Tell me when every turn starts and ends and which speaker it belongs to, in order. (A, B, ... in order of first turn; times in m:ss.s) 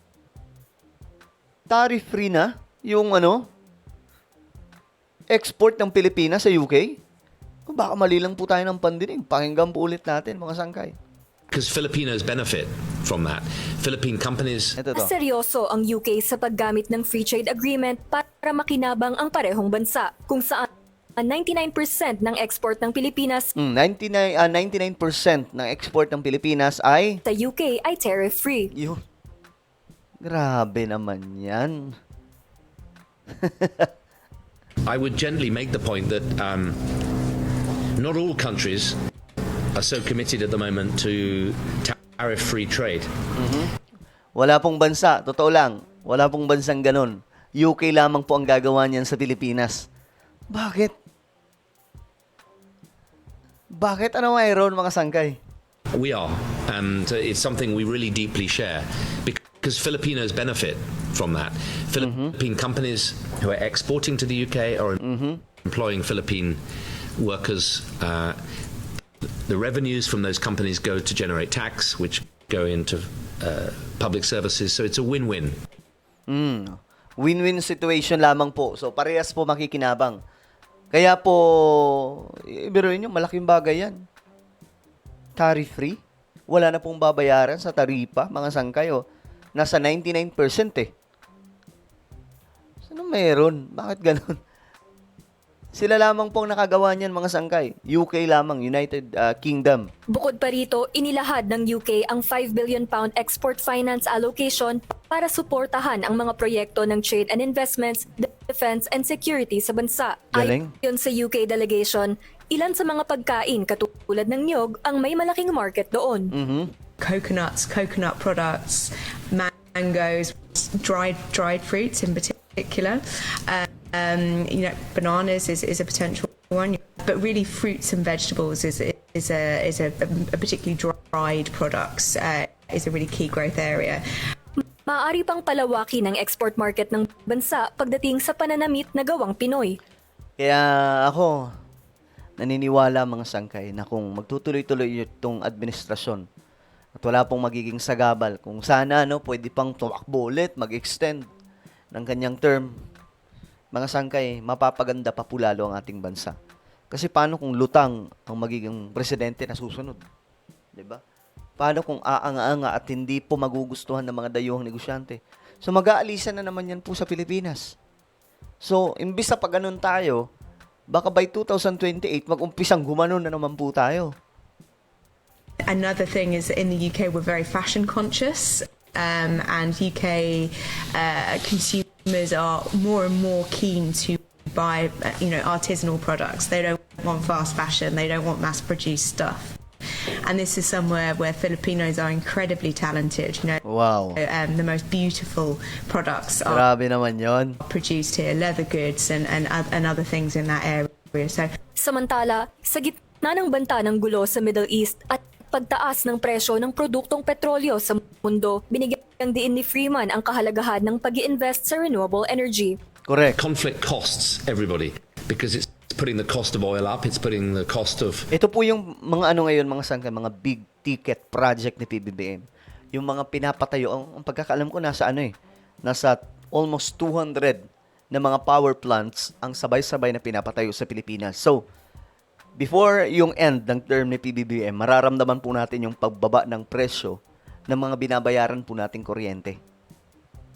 0:01.7-0:03.5 A
0:05.3-0:07.0 A
0:07.7-0:11.0 A
0:11.5-0:14.8 B
0:14.8-0:15.1 A
0:14.9-0:23.5 C
0:23.6-0:27.2 A
0:27.2-0:28.7 C
0:28.7-0:29.0 A
0:30.2-0:32.0 A
0:33.4-0:33.9 A
0:34.9-0:36.8 B
0:38.0-0:39.0 B
0:39.7-0:43.1 B
0:43.4-0:43.7 A
0:44.4-0:49.9 A
0:50.5-0:50.9 A
0:53.8-0:55.4 A
0:55.9-1:05.0 B
1:02.0-1:02.3 A
1:05.0-1:05.4 A
1:05.6-1:06.6 B
1:07.2-1:08.4 B
1:09.4-1:15.6 B
1:16.3-1:20.2 A
1:20.9-1:24.0 A
1:25.4-1:29.0 A
1:29.6-1:30.9 A
1:32.9-1:34.4 A
1:35.7-1:39.9 A
1:40.1-1:56.3 C
1:50.3-1:50.7 A
1:56.3-1:56.7 A
1:57.0-2:14.0 D
2:14.6-2:19.8 C
2:20.4-2:21.5 A
2:22.4-2:26.3 A
2:27.0-2:31.3 A
2:31.9-2:32.7 A
2:33.7-2:36.4 A
2:36.9-2:40.0 A
2:40.8-2:41.0 A
2:41.6-2:47.8 A
2:48.6-2:50.2 A
2:50.9-2:54.1 A
2:55.7-3:09.6 D
3:10.3-3:13.6 D
3:13.6-3:14.2 A
3:14.2-3:16.7 D
3:16.5-3:17.6 A
3:17.6-3:21.5 D
3:21.8-3:32.8 C
3:33.1-3:33.4 A
3:33.3-3:38.3 B
3:38.3-3:45.3 A
3:45.8-3:51.6 A
3:52.6-3:59.6 A